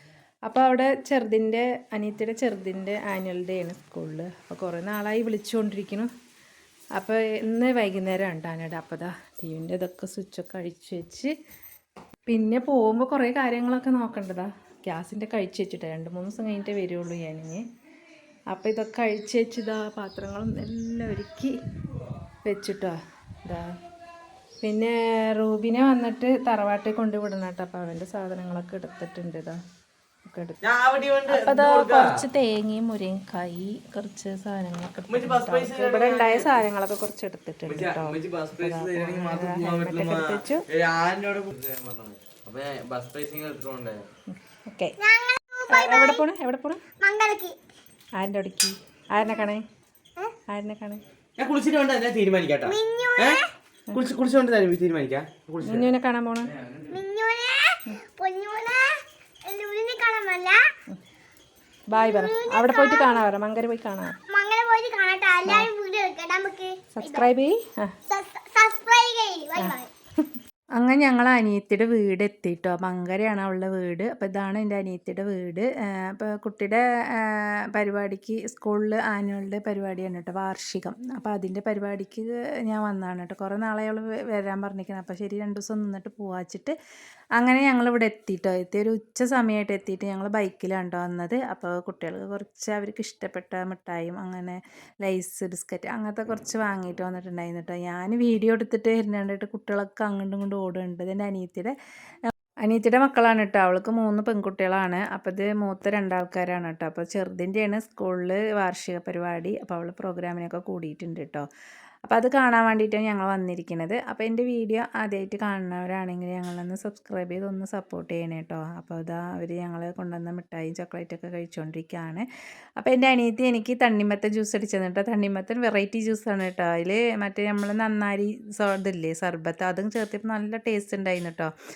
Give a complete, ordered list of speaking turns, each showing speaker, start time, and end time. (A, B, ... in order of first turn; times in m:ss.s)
0:00.4-0:06.1 A
0:07.0-0:11.3 A
0:12.3-0:17.6 A
0:18.5-0:21.5 A
0:22.4-0:23.7 A
0:24.6-0:29.6 A
0:30.3-0:30.6 A
0:30.6-0:32.2 B
0:31.3-0:40.7 A
0:35.1-0:36.6 B
0:37.7-0:44.1 B
0:44.3-0:45.0 A
0:45.0-0:46.2 C
0:45.7-0:46.8 A
0:47.0-0:47.6 C
0:48.2-0:49.6 A
0:50.5-0:51.0 A
0:51.4-0:53.4 B
0:52.6-0:53.5 C
0:53.9-0:55.9 B
0:55.6-0:56.5 A
0:56.6-0:56.9 B
0:56.9-1:00.6 C
1:01.9-1:04.2 A
1:01.9-1:03.2 C
1:04.3-1:07.3 C
1:05.4-1:05.7 A
1:07.0-1:08.0 A
1:08.1-1:09.9 C
1:10.8-1:26.8 A
1:27.4-1:41.7 A
1:42.6-1:51.5 A
1:52.1-2:02.2 A
2:02.8-2:11.5 A